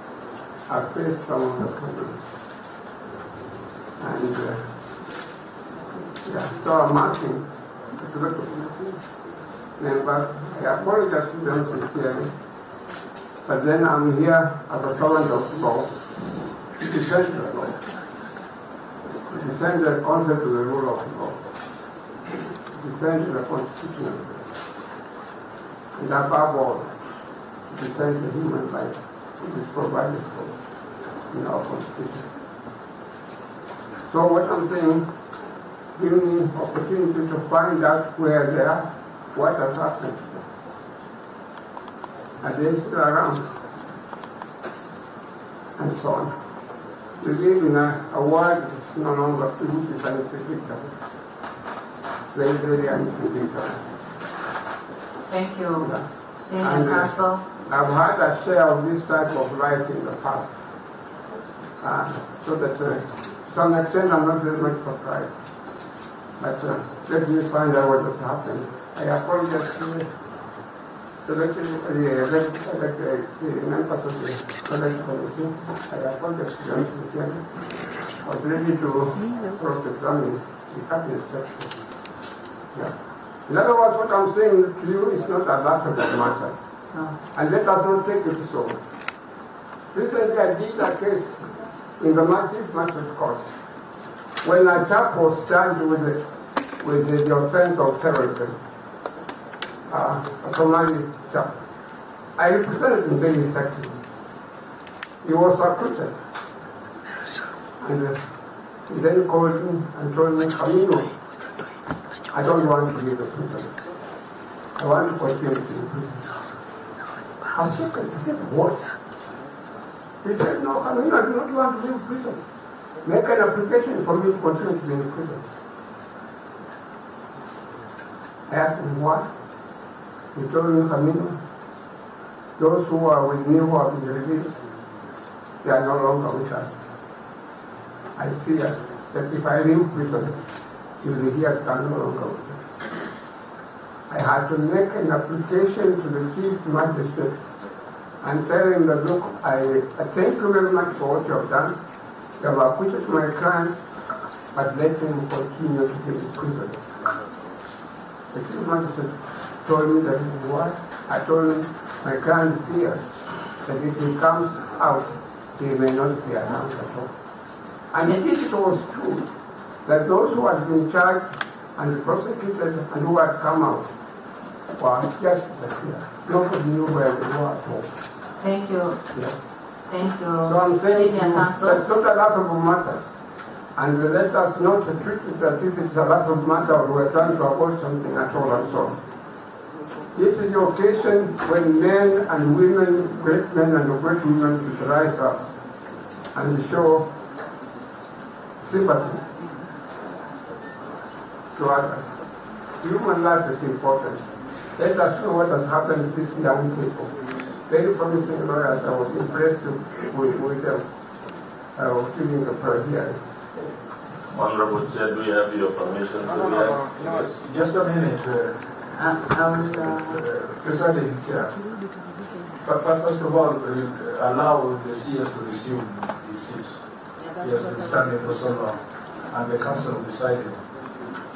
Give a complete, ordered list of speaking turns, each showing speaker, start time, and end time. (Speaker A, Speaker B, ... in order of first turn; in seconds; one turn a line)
Speaker A: 0.7-2.2
Speaker A: 4.0-4.7
Speaker A: 6.2-9.0
Speaker A: 9.8-12.3
Speaker A: 13.4-15.9
Speaker A: 16.8-17.8
Speaker A: 19.3-21.4
Speaker A: 22.7-24.5
Speaker A: 26.0-27.0
Speaker A: 27.7-30.6
Speaker A: 31.3-32.3
Speaker A: 34.1-35.1
Speaker A: 36.0-40.5
Speaker A: 42.4-43.5
Speaker A: 45.8-46.3
Speaker A: 47.2-51.0
Speaker A: 52.3-53.9
Speaker B: 55.3-57.4
Speaker A: 55.8-60.6
Speaker A: 61.8-65.4
Speaker A: 66.4-70.1
Speaker A: 71.2-77.5
Speaker A: 78.1-81.8
Speaker A: 83.5-86.6
Speaker A: 87.3-88.8
Speaker A: 89.9-93.5
Speaker A: 94.4-96.2
Speaker A: 96.8-98.6
Speaker A: 99.9-101.6
Speaker A: 102.3-104.0
Speaker A: 105.2-106.2
Speaker A: 107.8-108.2
Speaker A: 108.9-111.2
Speaker A: 112.3-113.8
Speaker A: 114.8-116.2
Speaker A: 117.5-118.9
Speaker A: 120.2-122.4
Speaker A: 123.0-125.5
Speaker A: 128.5-129.3
Speaker A: 130.3-131.4
Speaker A: 132.6-134.6
Speaker A: 135.6-136.8
Speaker A: 138.2-140.4
Speaker A: 141.0-142.6
Speaker A: 144.1-147.4
Speaker A: 148.2-151.8
Speaker A: 152.4-153.8
Speaker A: 154.5-156.9
Speaker A: 158.3-163.1
Speaker A: 163.6-167.1
Speaker A: 167.9-169.3
Speaker A: 169.8-173.9
Speaker A: 174.8-177.9
Speaker B: 178.4-179.1
Speaker A: 179.1-179.4
Speaker B: 179.9-181.8
Speaker A: 180.4-183.0
Speaker A: 183.8-189.0
Speaker A: 190.1-195.5
Speaker A: 196.3-197.2
Speaker A: 198.6-199.3
Speaker A: 201.6-202.2
Speaker A: 202.8-207.1
Speaker A: 207.7-210.9
Speaker A: 211.8-213.2
Speaker C: 214.3-217.4
Speaker D: 217.3-221.6
Speaker B: 218.9-220.2
Speaker D: 222.6-230.6